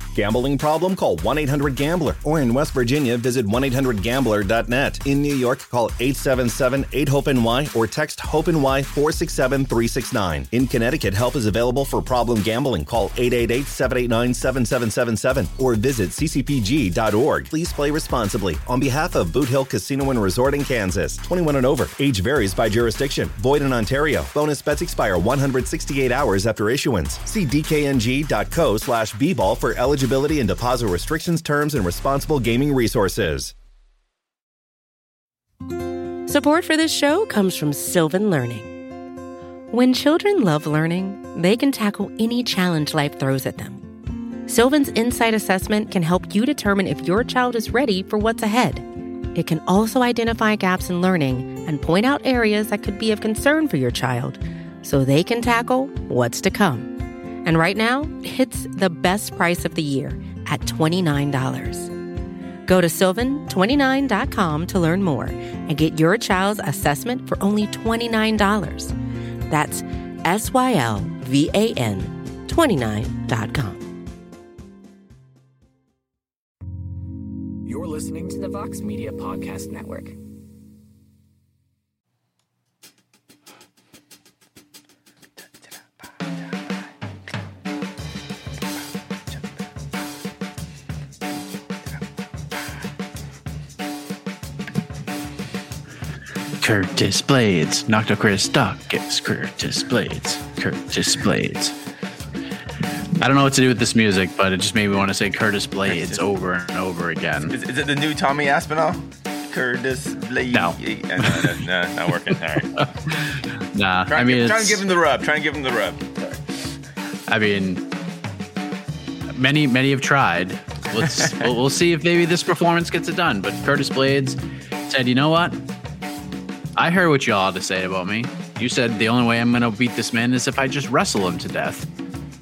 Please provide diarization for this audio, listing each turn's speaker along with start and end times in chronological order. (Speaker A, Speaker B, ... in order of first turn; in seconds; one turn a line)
Speaker A: 0.1-33.5
Speaker B: 36.3-38.7
Speaker B: 39.7-43.9
Speaker B: 44.5-61.9
Speaker B: 62.6-68.9
Speaker B: 69.5-73.9
Speaker C: 77.6-80.2
Speaker D: 96.6-101.8
Speaker D: 103.2-107.5
Speaker E: 105.9-106.2
Speaker E: 107.5-112.8
Speaker D: 110.5-111.5
Speaker D: 112.7-114.8
Speaker E: 114.1-116.4
Speaker D: 117.3-117.9
Speaker D: 119.3-125.6
Speaker D: 126.8-131.9